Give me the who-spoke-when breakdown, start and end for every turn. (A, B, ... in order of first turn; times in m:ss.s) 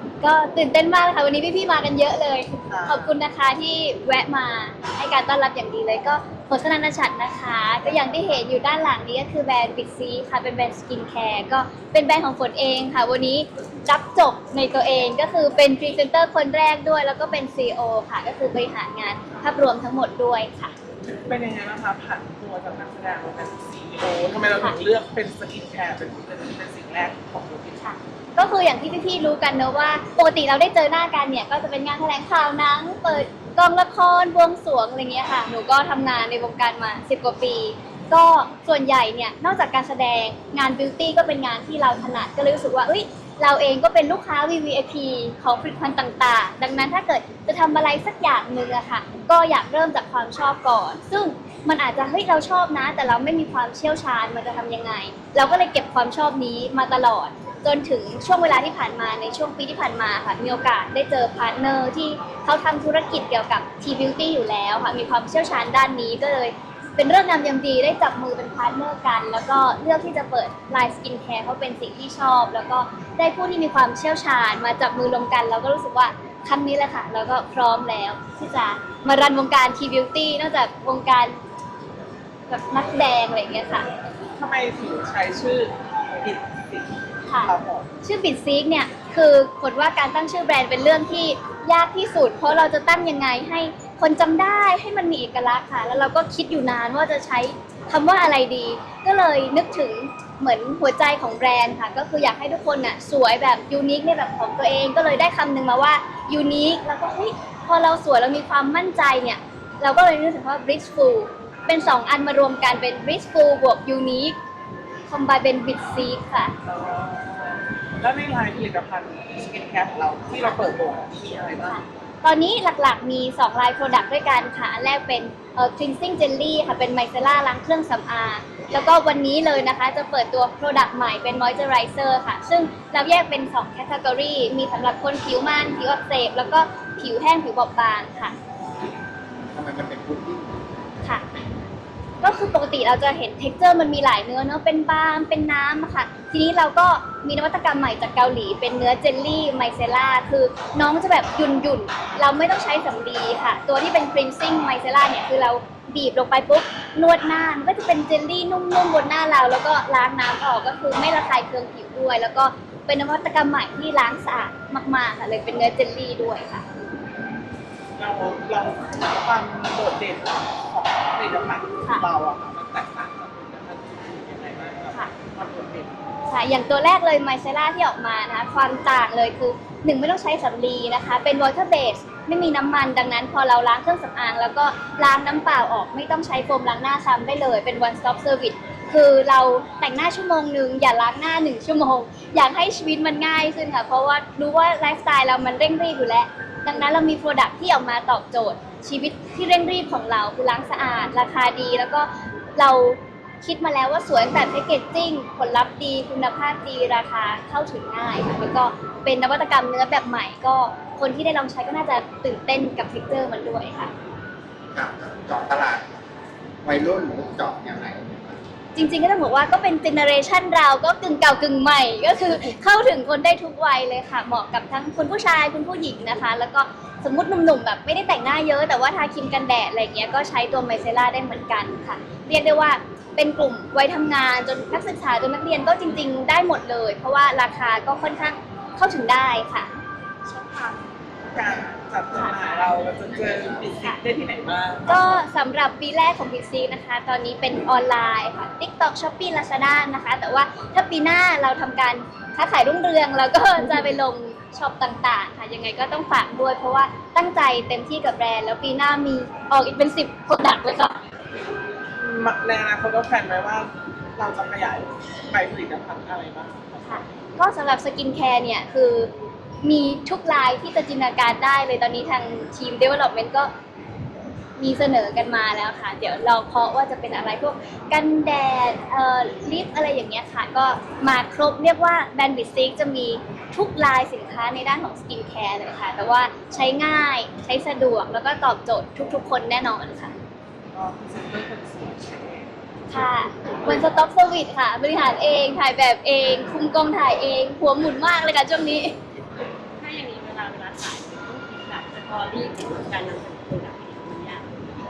0:00.2-0:20.7 A
0:02.7-0:03.1 B
0:21.2-0:27.9 B
0:27.8-1:21.4 A
1:22.5-1:23.9 A
1:24.4-1:27.9 B
1:27.3-1:54.4 A
1:55.1-1:56.5 A
1:56.6-2:01.8 B
2:01.6-2:18.3 A
2:19.5-2:21.0 C
2:22.2-2:46.6 A
2:48.0-2:55.9 B
2:56.3-3:33.9 A
3:34.7-3:35.8 C
3:36.6-3:38.4 C
3:38.7-3:59.7 A
4:00.2-4:00.8 B
4:01.3-4:05.2 B
4:02.1-4:02.5 A
4:03.1-4:03.6 C
4:04.9-4:21.0 A
4:22.0-4:27.0 B
4:26.8-4:29.1 A
4:29.6-4:33.5 A
4:34.6-4:50.1 A
4:50.7-4:52.5 B
4:52.9-4:59.0 A
4:59.7-5:04.5 D